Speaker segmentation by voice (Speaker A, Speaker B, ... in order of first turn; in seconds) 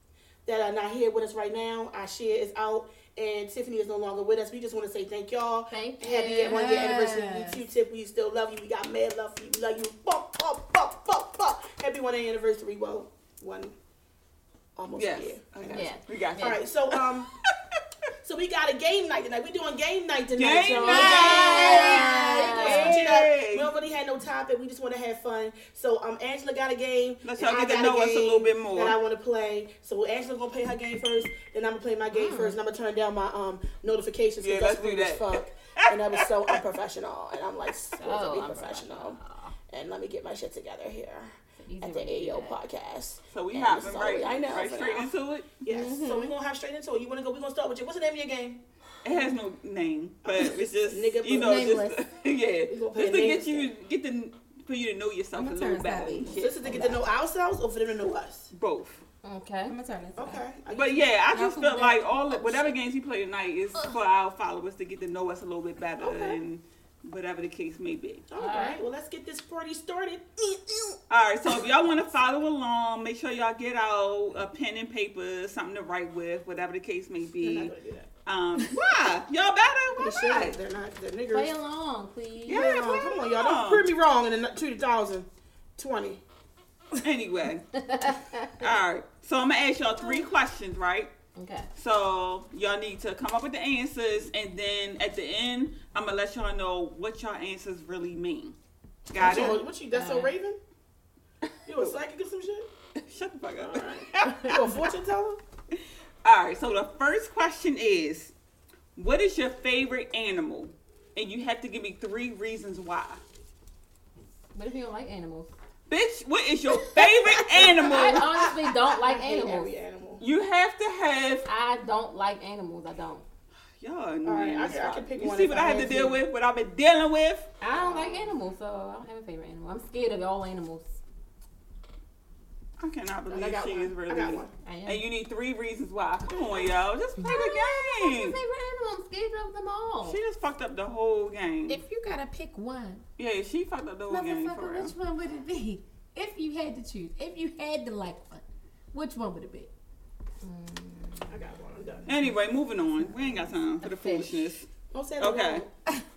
Speaker A: 0.5-13.8, 14.8-17.3, 18.2-48.6, 50.2-51.9, 52.7-53.7, 56.2-58.5, 60.2-61.1, 66.0-66.4, 68.3-71.0, 77.4-78.1, 80.0-81.5, 82.5-86.2, 99.1-100.6, 101.7-102.7, 103.6-105.4, 117.5-120.2, 124.2-126.2, 127.7-128.2, 133.3-134.5, 151.3-152.1, 154.9-155.7
Speaker B: 5.7-6.7, 15.7-16.6, 20.8-23.0, 32.1-32.6, 38.0-39.5, 41.6-42.6, 51.6-51.8, 56.6-56.9, 59.2-59.8, 68.4-68.8, 81.3-82.9, 87.7-88.6, 91.3-91.7, 99.2-100.3, 114.5-115.5, 117.7-119.7, 121.5-123.2, 127.6-131.0, 134.6-135.0, 137.2-140.2, 150.4-151.5, 153.8-154.5
Speaker C: 6.4-7.6, 21.6-22.6, 45.7-46.3, 51.4-51.9, 55.3-57.0, 59.7-60.4, 61.3-62.6, 141.7-143.0, 144.1-149.7
Speaker D: 14.9-17.8, 20.3-23.7, 27.2-29.0, 34.4-36.6, 43.3-45.5, 49.0-56.3, 58.5-59.0, 60.7-68.2, 71.1-77.7, 78.2-80.6, 82.5-83.9, 87.0-87.7, 88.5-91.1, 91.8-98.5, 99.1-99.6, 103.0-104.7, 106.2-108.3, 109.0-113.2, 115.9-118.4, 120.2-121.5, 123.8-127.5, 132.8-138.4, 140.0-141.8, 143.2-144.9, 152.1-154.7, 155.2-155.7